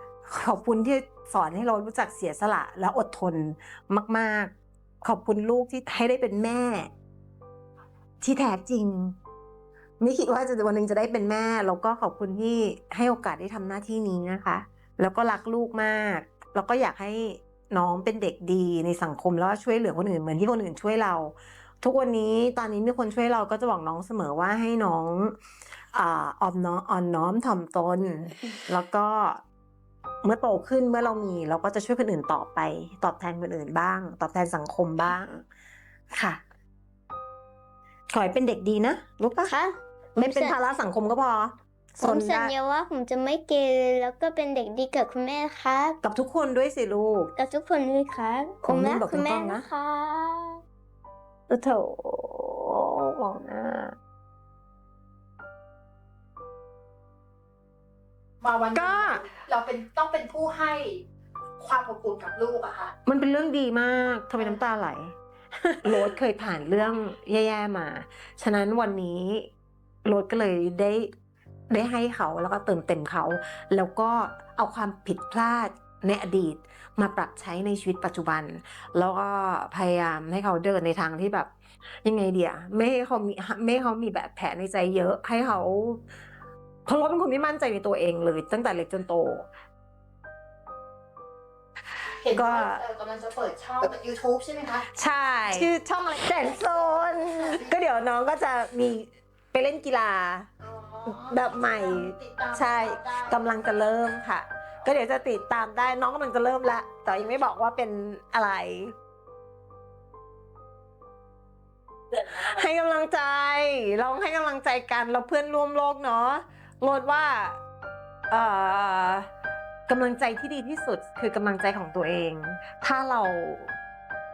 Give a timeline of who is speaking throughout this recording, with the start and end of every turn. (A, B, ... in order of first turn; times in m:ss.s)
0:00.3-0:06.9 A
0:08.2-0:09.2 A
0:10.0-0:25.4 A
0:25.9-0:29.4 A
0:30.2-0:35.4 A
0:36.1-0:36.4 A
0:38.1-0:39.5 A
0:40.2-0:42.5 A
0:40.3-0:40.6 B
0:42.0-0:45.8 B
0:46.0-0:47.3 A
0:47.4-0:50.4 B
0:48.7-0:49.6 A
0:51.5-0:54.0 A
0:58.4-1:01.0 C
0:58.7-0:59.2 A
1:01.6-1:03.0 C
1:03.1-1:05.2 A
1:04.4-1:04.6 C
1:05.8-1:09.5 A
1:10.0-1:11.1 A
1:11.7-1:21.5 A
1:22.0-1:26.0 A
1:26.9-1:29.5 A
1:32.2-1:35.7 C
1:32.3-1:32.8 A
1:35.0-1:40.5 A
1:36.4-1:37.7 C
1:40.6-1:43.4 C
1:41.1-1:48.9 A
1:52.1-1:57.6 A
1:58.3-1:59.3 A
1:59.9-2:03.7 A